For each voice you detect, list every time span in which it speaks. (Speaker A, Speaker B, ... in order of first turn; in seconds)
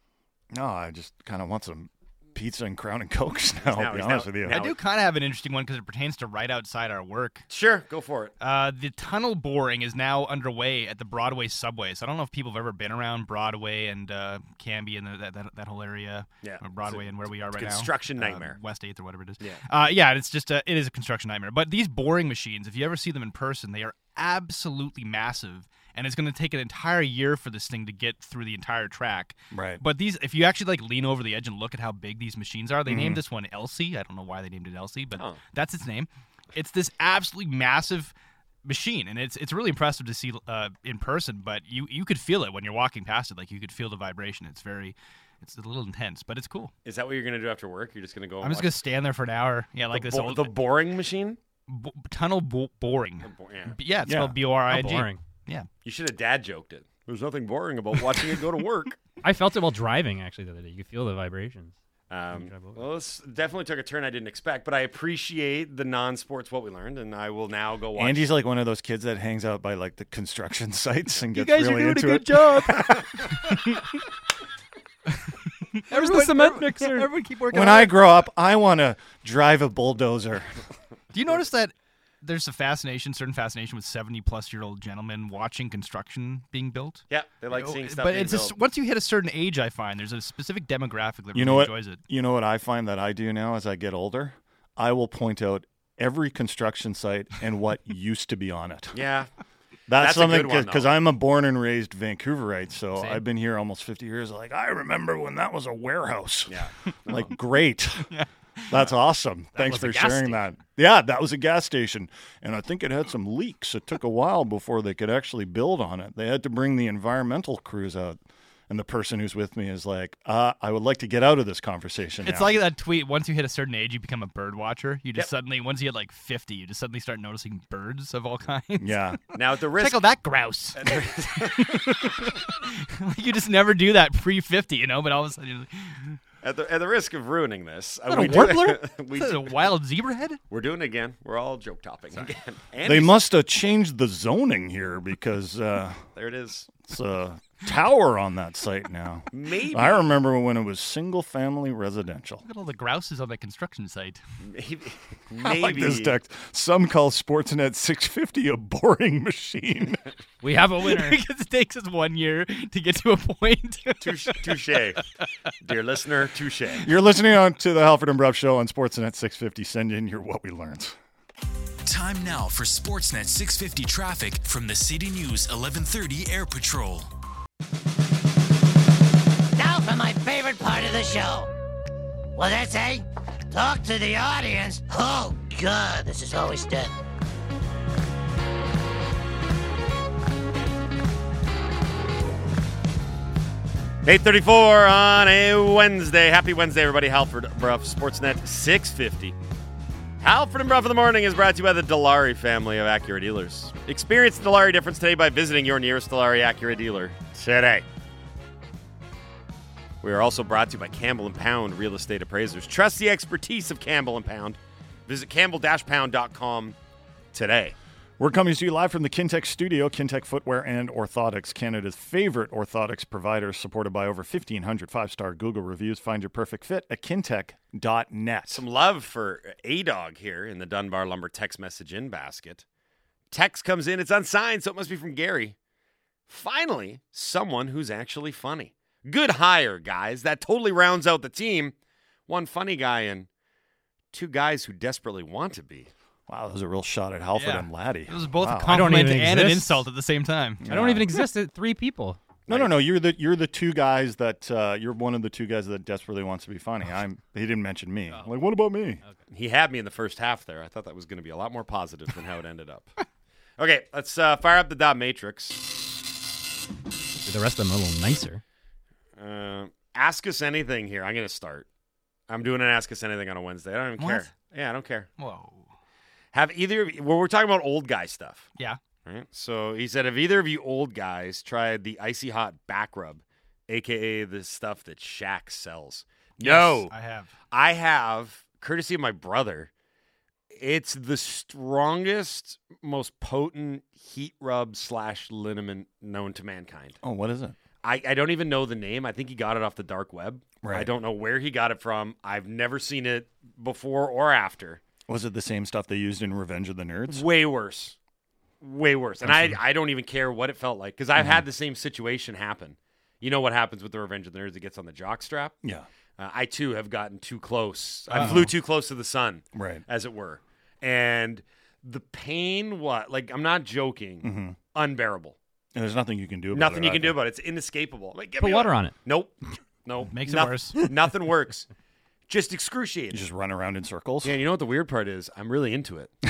Speaker A: 0.5-4.6, 29.5-29.8, 32.9-33.2, 54.0-54.4, 68.0-73.3, 77.5-80.6, 91.3-99.0, 99.9-108.1, 108.7-118.2, 118.7-122.5, 128.8-129.2, 142.8-146.1, 146.9-152.4, 155.4-160.1, 166.8-171.0, 218.2-228.6, 246.3-248.9, 250.6-251.1, 252.5-259.0, 297.0-297.6, 300.6-300.9, 305.1-307.2, 309.2-309.6, 311.1-311.4, 318.1-318.5, 319.5-319.8, 324.2-324.6, 325.7-327.2, 333.1-334.4
Speaker B: 3.6-4.8, 7.5-8.3, 16.4-18.6, 46.8-48.8, 49.9-51.4, 53.2-53.7, 55.8-59.0, 62.1-68.3, 87.1-88.5, 98.9-99.3, 100.0-100.9, 106.5-107.3, 129.3-130.0, 130.8-131.9, 136.4-139.7, 140.5-143.2, 146.2-146.8, 149.3-150.1, 154.5-156.2, 164.0-165.0, 165.6-166.9, 194.0-199.3, 200.2-207.8, 210.0-216.8, 217.3-217.8, 228.5-232.6, 233.3-235.6, 236.3-241.7, 242.3-243.3, 244.1-245.9, 252.5-252.7, 259.3-263.0, 263.6-265.6, 269.1-271.7, 272.3-275.1, 276.3-278.5, 279.0-286.9, 287.5-289.7, 290.5-297.0, 297.8-304.8, 307.1-307.9, 308.6-315.6, 316.2-325.4, 326.5-331.7, 332.3-333.2, 334.2-336.2
Speaker C: 4.5-7.5, 8.4-38.1, 38.6-46.7, 48.4-50.5, 51.7-55.7, 71.3-74.0, 75.2-78.0, 81.1-92.0, 108.1-108.8, 122.2-129.0, 129.8-136.2, 138.1-140.4, 152.4-154.2, 160.8-165.2, 247.4-250.7, 274.0-274.3, 275.2-275.7, 286.4-287.3, 318.1-318.4, 330.1-330.8
Speaker D: 54.7-55.2, 59.2-61.8, 62.3-62.8, 75.9-77.1, 102.9-103.2, 109.5-110.5, 160.4-161.2, 248.7-249.9, 250.7-252.2, 267.2-268.4, 328.4-328.9
Speaker E: 171.8-177.1
Speaker F: 179.6-181.5, 182.3-186.9